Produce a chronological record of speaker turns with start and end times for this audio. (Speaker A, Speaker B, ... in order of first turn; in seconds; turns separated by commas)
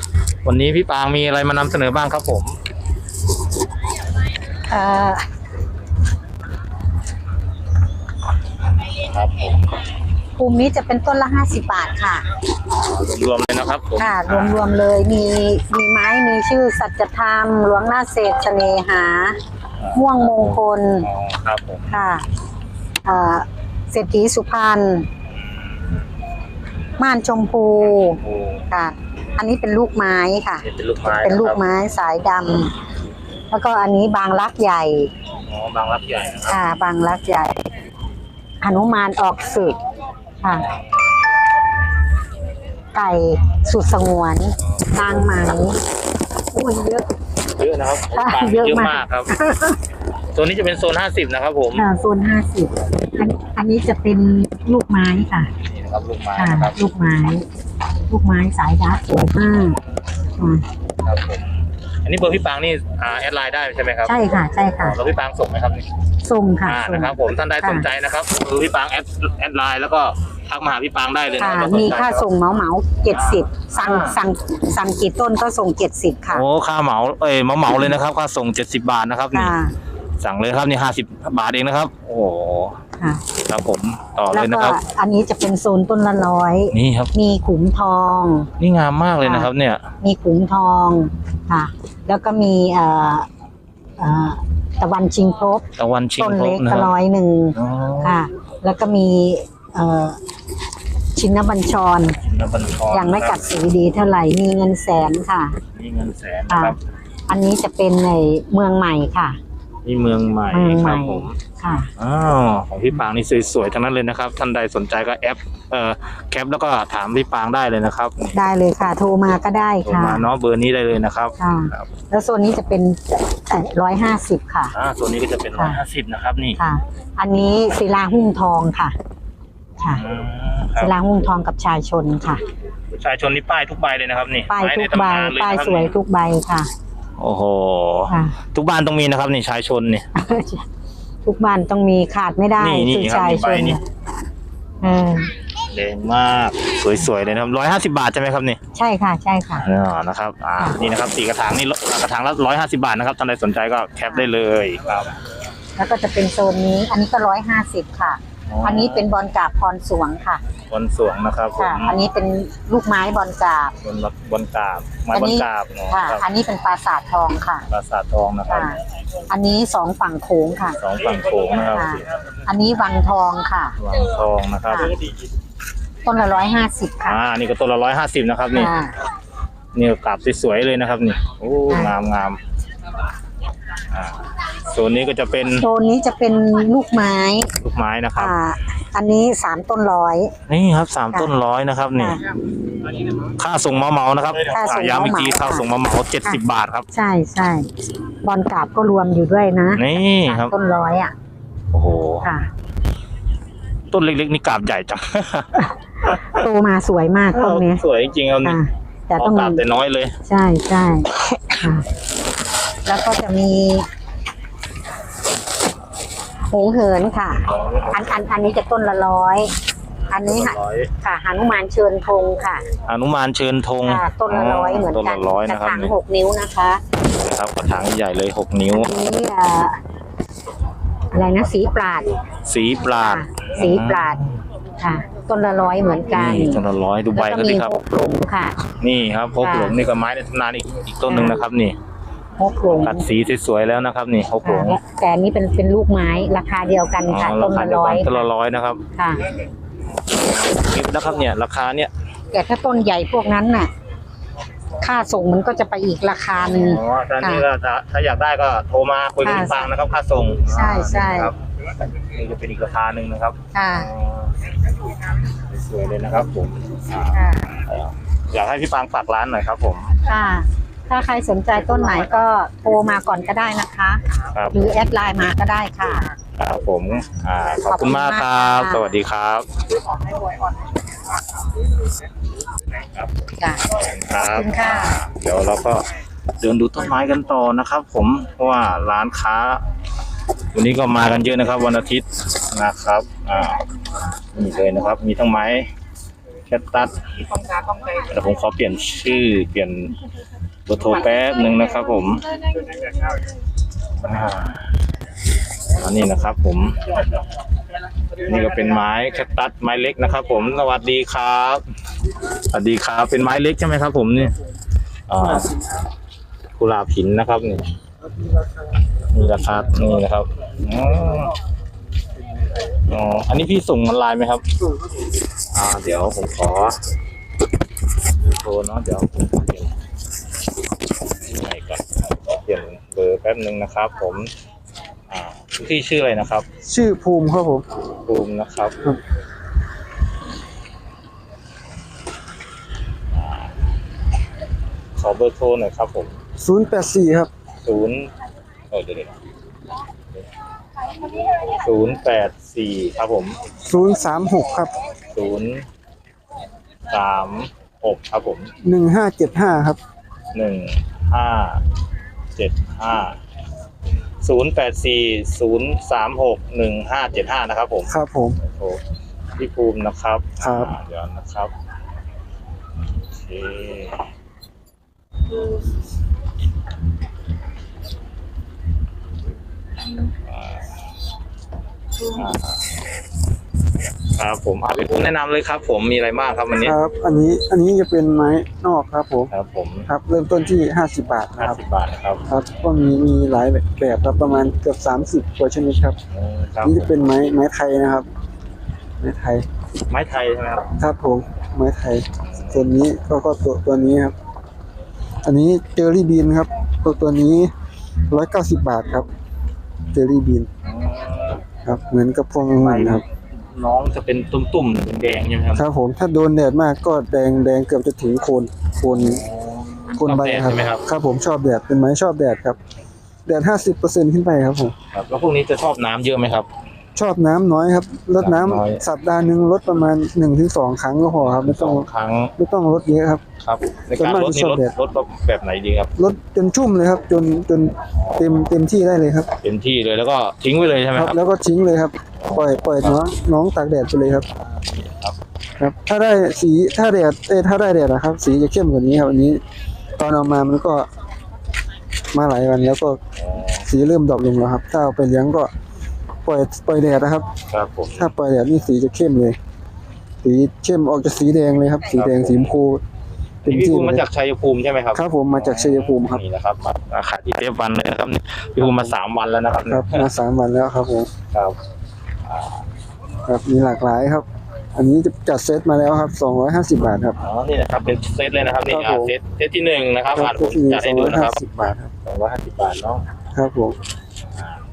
Speaker A: 0.4-2.5, Speaker B: 4.7-5.2, Speaker A: 8.9-9.7, Speaker B: 10.4-12.3, Speaker A: 12.8-14.8, Speaker B: 14.0-19.4, Speaker A: 19.8-22.0, Speaker B: 19.9-21.1, Speaker B: 21.9-22.2, Speaker B: 23.1-25.1, Speaker B: 27.0-28.2, Speaker A: 27.9-28.6, Speaker B: 28.7-30.6, Speaker A: 30.6-31.6, Speaker B: 31.2-32.7, Speaker B: 33.5-35.1, Speaker A: 35.5-36.6, Speaker B: 36.5-37.5, Speaker B: 38.6-39.8, Speaker B: 40.4-40.7, Speaker B: 42.9-45.8, Speaker A: 44.8-45.3, Speaker B: 46.5-47.1, Speaker A: 47.6-49.3, Speaker B: 48.1-49.8, Speaker A: 50.3-51.9, Speaker B: 51.8-55.5, Speaker A: 55.6-56.8, Speaker B: 56.4-57.5, Speaker B: 58.1-59.8, Speaker B: 60.4-60.6, Speaker A: 61.0-61.5, Speaker A: 62.0-65.9, Speaker B: 64.0-65.0, Speaker B: 66.2-67.9, Speaker A: 66.6-72.3, Speaker B: 71.4-76.5, Speaker A: 73.1-74.2, Speaker A: 76.3-79.6, Speaker B: 79.3-79.7, Speaker A: 80.2-82.8, Speaker A: 83.3-84.8, Speaker B: 84.3-88.5, Speaker A: 86.7-87.1, Speaker A: 88.6-89.8, Speaker B: 89.2-89.5, Speaker B: 90.0-93.3, Speaker B: 94.0-95.6, Speaker A: 95.8-96.9, Speaker B: 96.2-100.2, Speaker A: 97.5-98.2, Speaker B: 101.2-102.2, Speaker A: 102.2-103.5, Speaker B: 102.9-105.6, Speaker A: 105.8-106.8, Speaker B: 106.5-106.8, Speaker B: 107.3-109.4, Speaker A: 109.8-111.4, Speaker B: 110.5-111.9, Speaker A: 112.0-118.5, Speaker B: 118.3-120.3, Speaker A: 119.8-121.9, Speaker B: 121.4-124.8, Speaker A: 124.7-126.6, Speaker B: 126.6-128.9, Speaker A: 129.9-130.9, Speaker B: 130.8-132.4, Speaker A: 132.9-135.9, Speaker B: 134.5-136.7, Speaker A: 137.2-140.1, Speaker B: 138.1-138.4, Speaker B: 140.2-140.7, Speaker B: 141.2-143.8, Speaker A: 142.6-143.8, Speaker B: 144.8-145.3, Speaker A: 145.7-148.6, Speaker B: 148.8-149.7, Speaker A: 149.6-155.2, Speaker B: 155.8-160.4, Speaker A: 158.5-159.1, Speaker A: 160.7-162.0, Speaker B: 161.6-163.7, Speaker A: 163.8-166.2, Speaker B: 165.1-167.7, Speaker A: 167.7-168.7, Speaker B: 168.5-168.8, Speaker B: 169.3-170.8, Speaker A: 170.8-172.0, Speaker B: 171.6-173.8, Speaker A: 173.8-175.1, Speaker B: 176.1-177.2, Speaker A: 177.1-178.7, Speaker B: 178.5-178.9, Speaker A: 179.7-182.4, Speaker B: 181.7-181.9, Speaker A: 183.9-185.7, Speaker B: 185.5-187.5, Speaker A: 187.6-188.3, Speaker B: 188.2-190.3, Speaker A: 190.5-192.2, Speaker A: 193.1-196.9, Speaker B: 194.5-195.7, Speaker B: 196.9-197.7, Speaker B: 198.2-201.1, Speaker A: 199.8-200.5, Speaker A: 201.7-202.3, Speaker A: 203.9-206.4, Speaker B: 206.0-207.8, Speaker A: 207.3-208.6, Speaker B: 208.4-209.6, Speaker A: 209.2-210.2, Speaker B: 210.2-211.9, Speaker B: 212.8-213.9, Speaker B: 216.5-219.5, Speaker A: 217.4-218.2, Speaker B: 220.1-222.7, Speaker A: 220.2-220.9, Speaker A: 222.9-225.9, Speaker B: 223.8-226.8, Speaker A: 227.1-228.9, Speaker B: 228.7-229.8, Speaker B: 231.1-232.1, Speaker A: 232.5-234.4, Speaker B: 232.9-234.2, Speaker B: 234.8-236.6, Speaker A: 236.1-237.8, Speaker B: 237.1-238.6, Speaker A: 238.8-241.8, Speaker B: 239.4-239.8, Speaker B: 241.1-241.4, Speaker B: 242.4-243.1, Speaker A: 242.7-244.8, Speaker B: 244.4-248.3, Speaker A: 247.1-248.8, Speaker B: 249.0-249.2, Speaker A: 250.0-251.9, Speaker B: 252.3-253.7, Speaker B: 254.8-257.5, Speaker A: 256.4-264.3, Speaker B: 259.2-259.7, Speaker B: 260.5-261.3, Speaker B: 263.5-263.9, Speaker A: 265.3-269.9, Speaker B: 267.1-267.5, Speaker B: 270.1-276.1, Speaker A: 274.3-274.7, Speaker A: 276.4-279.5, Speaker B: 277.7-278.9, Speaker A: 282.9-285.9, Speaker B: 284.2-285.0, Speaker A: 286.4-289.6, Speaker A: 290.5-293.6, Speaker A: 294.3-295.7, Speaker A: 296.5-297.2, Speaker A: 297.8-300.0, Speaker A: 300.7-302.3, Speaker A: 304.0-304.7, Speaker A: 305.7-306.8, Speaker A: 308.2-311.6, Speaker A: 312.5-314.3, Speaker A: 315.1-315.6, Speaker A: 316.6-317.6, Speaker A: 319.1-321.3, Speaker A: 322.8-324.4, Speaker A: 325.5-326.8, Speaker A: 328.2-329.7, Speaker A: 331.3-334.3, Speaker A: 335.1-336.5, Speaker C: 336.6-337.6, Speaker A: 338.1-338.8, Speaker A: 343.1-343.5, Speaker A: 345.0-346.1, Speaker C: 346.4-347.3, Speaker A: 347.6-348.1, Speaker A: 348.7-349.2, Speaker A: 351.4-353.4, Speaker C: 353.6-354.7, Speaker A: 355.1-355.7, Speaker A: 356.9-358.5, Speaker C: 358.6-359.8, Speaker A: 360.3-361.6, Speaker A: 362.4-363.2, Speaker A: 364.2-368.8, Speaker C: 367.9-368.4, Speaker A: 369.4-371.5, Speaker C: 370.4-370.8, Speaker A: 373.1-374.1, Speaker A: 380.3-380.7, Speaker A: 382.1-382.7, Speaker A: 384.1-386.8, Speaker C: 386.6-389.3, Speaker A: 389.3-389.9, Speaker C: 389.9-391.6, Speaker A: 391.4-392.2, Speaker C: 392.3-396.0, Speaker A: 396.1-396.9, Speaker C: 396.6-398.1, Speaker C: 399.0-399.5, Speaker A: 399.9-400.7, Speaker C: 400.8-404.1, Speaker A: 402.3-402.6, Speaker C: 405.2-407.5, Speaker C: 408.1-409.1, Speaker C: 409.9-410.5, Speaker A: 410.6-411.4, Speaker C: 411.6-413.0, Speaker A: 412.6-415.7, Speaker C: 415.6-419.2, Speaker A: 418.9-420.8, Speaker C: 419.9-422.6, Speaker C: 423.3-424.7, Speaker A: 424.9-426.5, Speaker C: 427.0-433.2, Speaker A: 428.2-428.8, Speaker A: 431.2-432.3, Speaker A: 433.4-435.9, Speaker C: 433.9-434.8, Speaker C: 436.0-439.3, Speaker A: 438.0-438.5, Speaker A: 439.4-441.2, Speaker C: 440.9-444.3, Speaker A: 442.2-443.0, Speaker A: 444.4-445.2, Speaker C: 445.6-449.4, Speaker C: 450.0-450.9, Speaker C: 452.1-453.0, Speaker A: 453.2-453.7, Speaker C: 453.6-455.5, Speaker C: 456.2-457.3, Speaker A: 457.5-458.1, Speaker C: 457.9-459.4, Speaker C: 460.2-462.8, Speaker A: 461.9-462.5, Speaker C: 463.4-464.1, Speaker A: 463.5-470.1, Speaker C: 464.9-466.2, Speaker C: 468.6-468.9, Speaker C: 469.7-471.1, Speaker A: 472.3-472.6, Speaker C: 473.3-477.2, Speaker A: 477.2-481.4, Speaker C: 478.7-479.1, Speaker C: 480.1-481.9, Speaker A: 482.1-483.0, Speaker C: 483.3-483.8